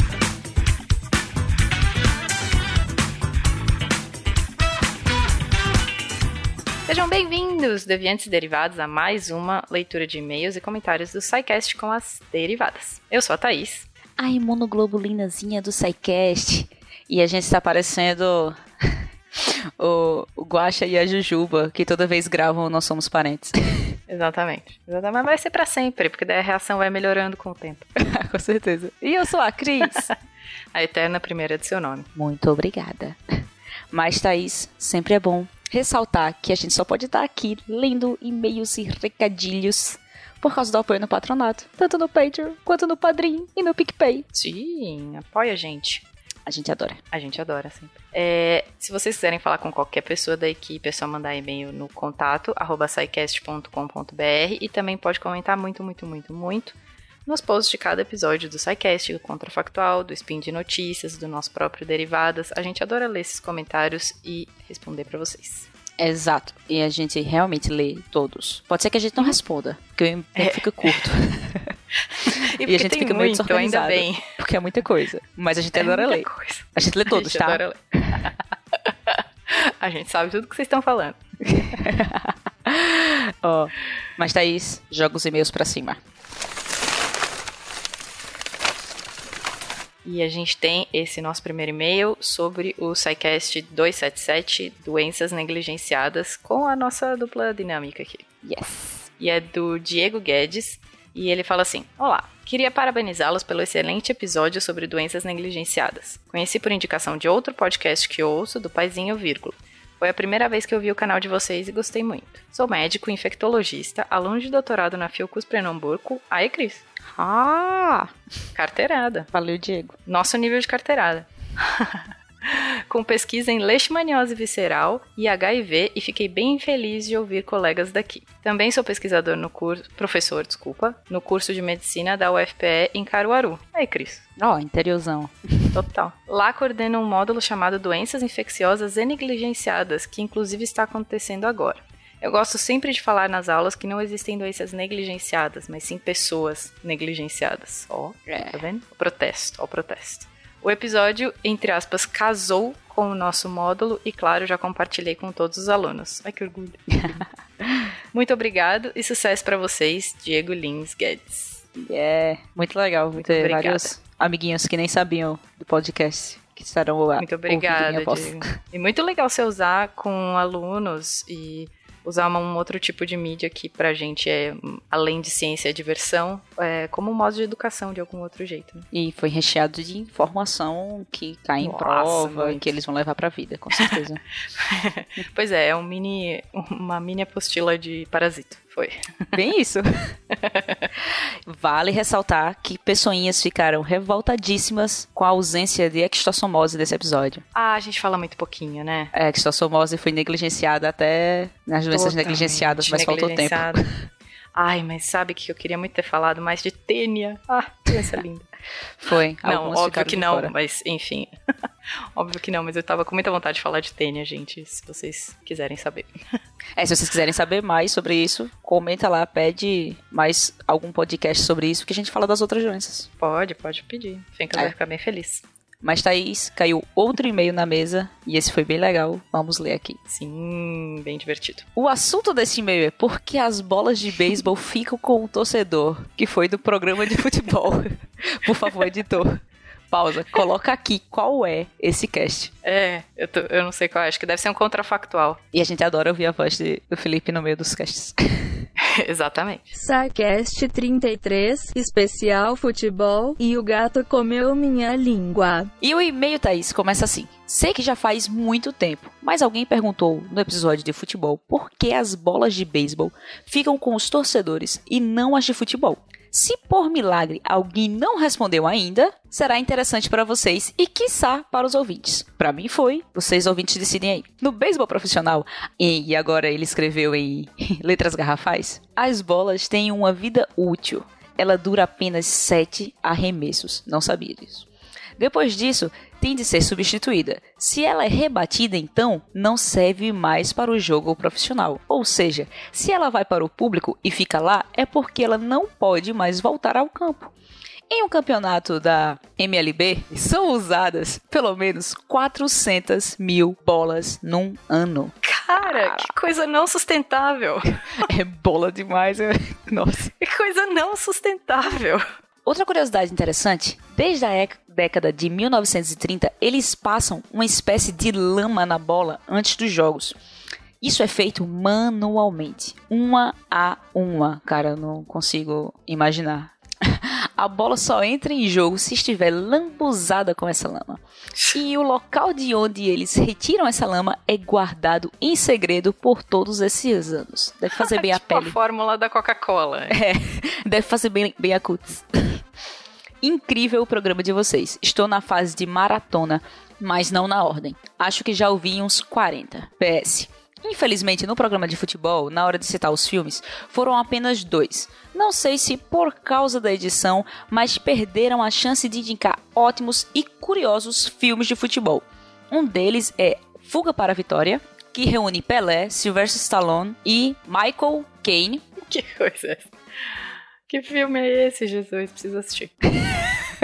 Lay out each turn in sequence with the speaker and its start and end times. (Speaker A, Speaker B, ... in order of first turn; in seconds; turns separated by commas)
Speaker A: 6.9-13.9, Speaker B: 14.2-18.6, Speaker B: 19.4-23.9, Speaker A: 24.1-27.9, Speaker B: 28.0-30.1, Speaker A: 30.7-32.1, Speaker B: 32.1-33.2, Speaker B: 33.9-44.2, Speaker A: 44.3-46.0, Speaker B: 46.5-47.0, Speaker A: 47.1-65.7, Speaker B: 66.0-71.7, Speaker A: 70.3-71.0, Speaker A: 72.1-74.3, Speaker B: 72.6-78.3, Speaker A: 75.7-81.2, Speaker B: 81.5-86.0, Speaker A: 90.0-98.3, Speaker B: 98.4-99.1, Speaker A: 99.2-116.8, Speaker B: 117.1-118.1, Speaker A: 118.5-119.3, Speaker B: 119.3-119.9, Speaker A: 120.0-134.2, Speaker B: 134.4-135.8, Speaker A: 135.7-157.2, Speaker B: 148.3-148.6, Speaker A: 158.1-161.6, Speaker B: 161.8-168.5, Speaker A: 163.1-163.9, Speaker A: 167.2-178.9, Speaker B: 178.9-184.2, Speaker A: 181.6-182.8, Speaker A: 184.6-189.4, Speaker B: 189.3-189.8, Speaker A: 190.3-190.9, Speaker B: 191.5-197.4, Speaker A: 197.5-199.1, Speaker B: 199.1-203.9, Speaker A: 201.9-203.8, Speaker A: 204.5-208.5, Speaker B: 209.0-210.5, Speaker A: 209.4-211.3, Speaker A: 212.1-216.1, Speaker B: 216.8-223.1, Speaker A: 223.2-225.4, Speaker B: 225.8-230.0, Speaker A: 230.1-231.7, Speaker B: 231.8-239.3, Speaker B: 239.9-242.5, Speaker A: 242.6-245.4, Speaker B: 245.5-248.2, Speaker A: 248.8-249.7, Speaker C: 249.8-255.7, Speaker B: 255.8-284.7, Speaker B: 285.2-297.3, Speaker B: 297.9-306.1, Speaker A: 305.2-307.8, Speaker B: 308.1-310.1, Speaker A: 310.2-312.0, Speaker B: 312.4-320.2, Speaker B: 320.8-331.0, Speaker B: 331.5-338.6, Speaker A: 337.7-340.0, Speaker B: 339.9-342.4, Speaker B: 343.2-368.6, Speaker A: 368.8-369.7, Speaker A: 370.7-372.8